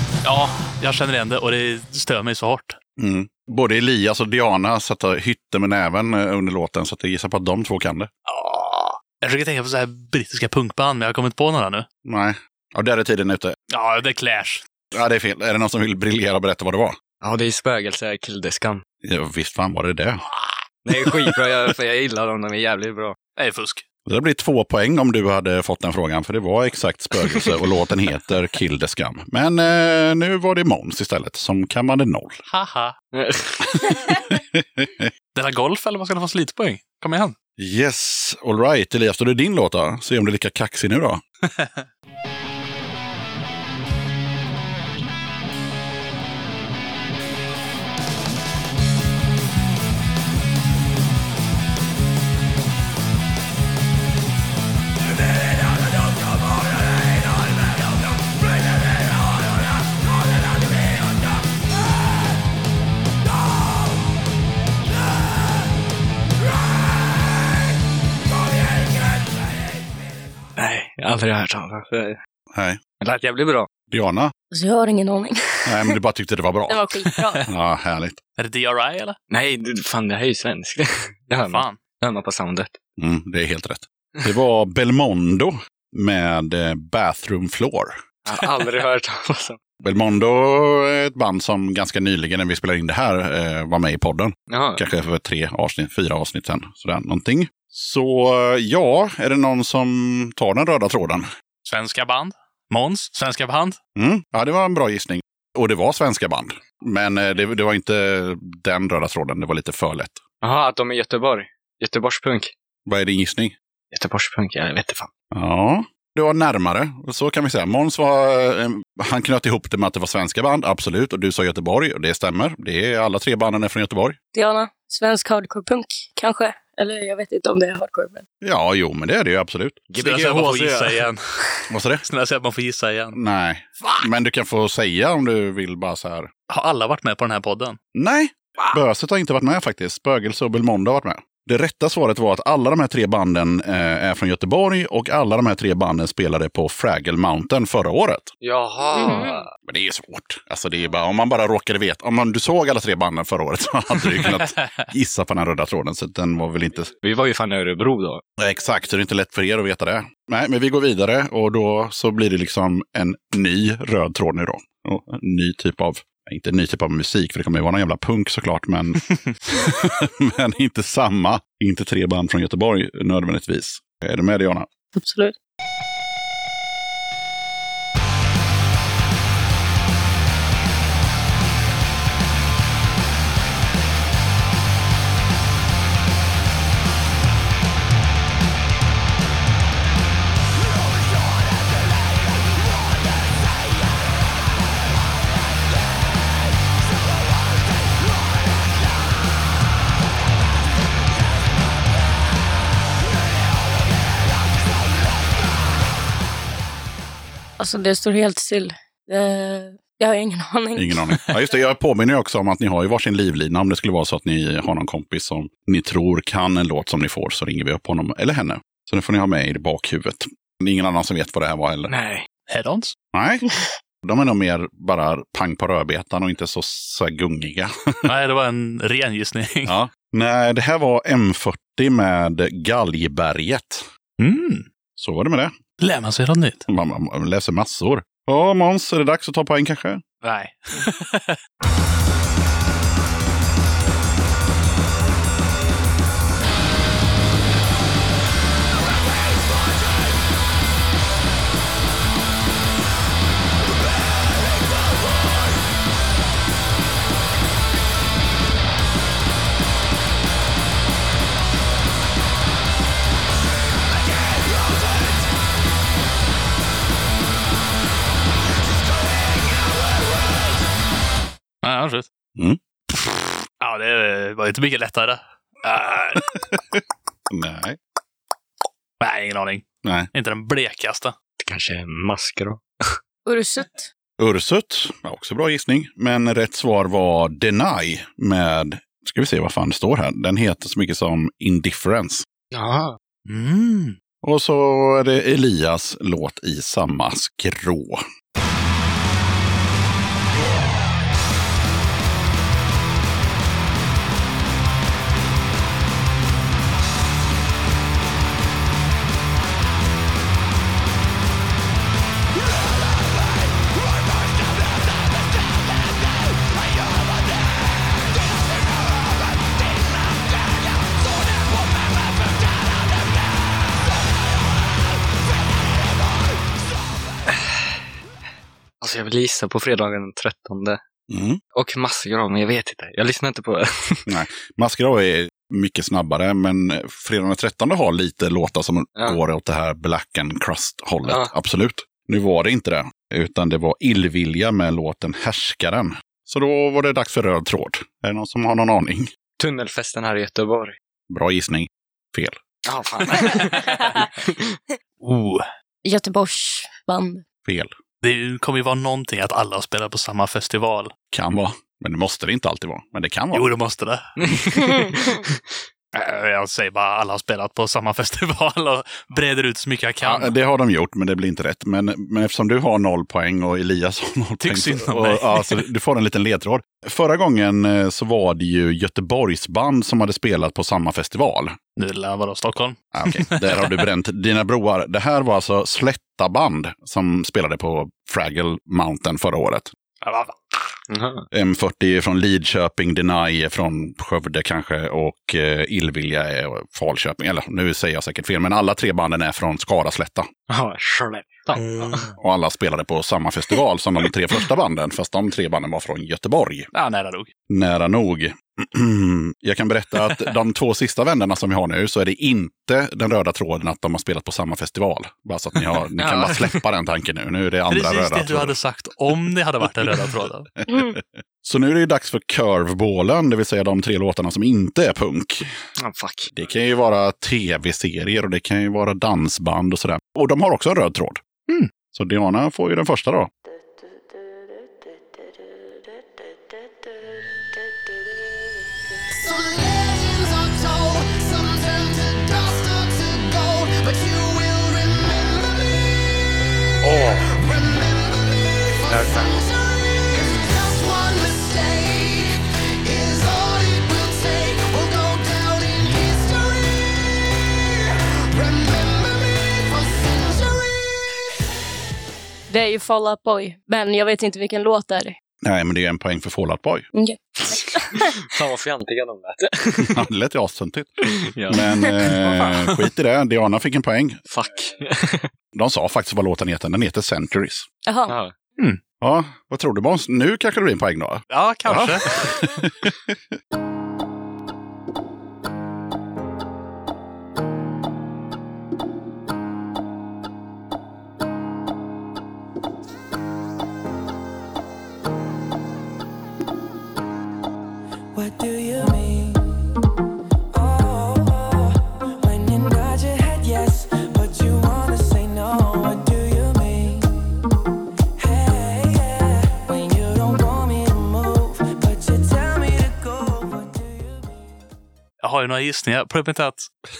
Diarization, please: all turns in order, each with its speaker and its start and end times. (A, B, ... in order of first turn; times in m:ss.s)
0:00.2-0:02.8 A
0:03.0-0:08.1 B
0:08.3-0:11.9 A
0:12.0-0:13.6 B
0:13.7-0:14.6 A
0:14.9-0:17.0 B
0:17.2-0:18.8 C
0:19.0-0:20.2 B
0:20.8-0:23.2 C
0:23.4-0:23.8 A
0:24.1-0:32.4 B
0:27.3-0:27.6 C
0:32.5-0:33.0 A
0:33.1-0:33.7 C
0:34.0-0:35.1 B
0:35.4-0:37.4 A
0:37.6-0:41.2 B
0:41.5-0:41.8 A
1:10.6-1:12.2 C
1:12.5-1:12.8 B
1:13.0-1:13.7 C
1:13.9-1:14.3 B
1:14.5-1:15.9 D
1:15.7-1:16.8 B
1:16.7-1:17.4 D
1:17.1-1:17.4 A
1:17.5-1:18.2 B
1:18.4-1:19.2 A
1:19.3-1:22.8 C
1:21.5-1:21.8 A
1:23.0-1:28.0 B
1:28.3-1:29.6 C
1:29.8-1:41.3 B
1:34.5-1:34.8 C
1:41.7-1:43.8 A
1:44.0-1:50.2 B
1:50.4-1:52.5 C
1:52.9-1:53.6 B
1:53.9-1:55.1 C
1:55.3-2:04.2 B
2:04.3-2:08.2 D
2:08.4-2:09.8 B
2:09.9-2:11.1 C
2:10.0-2:13.2 A
2:11.7-2:12.0 B
2:13.1-2:16.3 B
2:16.5-2:17.8 A
2:18.0-2:28.3 B
2:28.4-2:29.5 C
2:28.9-2:29.4 D
2:29.7-2:36.9 B
2:36.9-2:38.2 C
2:38.4-2:54.7 B
2:55.0-2:55.4 D
3:27.6-3:31.0 D
3:30.8-3:41.9 B
3:41.9-3:42.3 C
3:42.5-3:42.9 A
3:43.1-3:43.5 B
3:44.0-3:48.1 B
3:48.0-3:49.7 A
3:49.7-3:53.8 B
3:54.2-3:54.7 A
3:55.0-3:55.5 B
3:55.8-3:56.7 A
3:56.7-4:00.0 B
4:00.2-4:01.4 A
4:31.6-4:32.1 A
4:33.6-4:36.4 A
4:37.3-4:37.8 B
4:39.0-4:41.1 A
4:39.8-4:40.1 B
4:41.4-4:43.0 C
4:43.2-4:43.9 D
4:44.2-4:52.2 B
4:52.5-4:53.0 C
4:53.3-4:54.0 A
4:54.2-4:58.0 B
5:27.3-5:27.8 C
5:28.8-5:30.8 C
5:31.1-5:31.4 B
5:31.5-5:34.1 C
5:34.1-5:49.1 B
5:41.1-5:41.3 C
5:49.4-5:50.8 C
5:51.1-5:52.4 B
5:52.7-5:54.6 C
5:55.0-5:55.5 A
5:55.8-5:57.2 D
5:57.5-5:57.7 B
5:58.0-6:00.9 A
6:01.1-6:03.5 B
6:03.3-6:04.0 A
6:04.2-6:05.4 C
6:04.6-6:05.0 D
6:05.9-6:10.3 A
6:10.0-6:21.6 B
6:14.4-6:15.6 A
6:21.8-6:23.9 A
6:22.9-6:29.7 B
6:30.0-6:30.6 A
6:30.9-6:31.2 C
6:31.3-6:40.3 B
6:40.5-6:42.1 C
6:41.6-6:42.0 A
6:42.1-6:46.7 B
6:46.7-6:47.3 A
6:47.5-6:58.6 B
6:56.0-6:56.6 C
6:57.7-7:00.5 A
7:00.6-7:05.5 B
7:00.7-7:00.9 D
7:05.8-7:06.3 C
7:06.3-7:11.2 B
7:11.9-7:13.3 B
7:19.1-7:26.0 E
7:26.8-7:36.9 E
7:26.8-7:27.2 A
7:28.9-7:29.2 A
7:38.3-7:40.8 E
7:42.5-7:45.2 D
7:45.4-7:46.9 B
7:46.9-7:48.2 D
7:47.5-7:50.0 C
7:50.0-7:54.2 B
7:51.3-7:51.6 C
7:54.3-7:55.3 C
7:55.5-7:57.7 B
7:57.9-7:58.2 D
7:58.1-7:58.3 C
7:59.0-8:03.2 B
8:01.3-8:02.4 A
8:35.2-8:36.7 A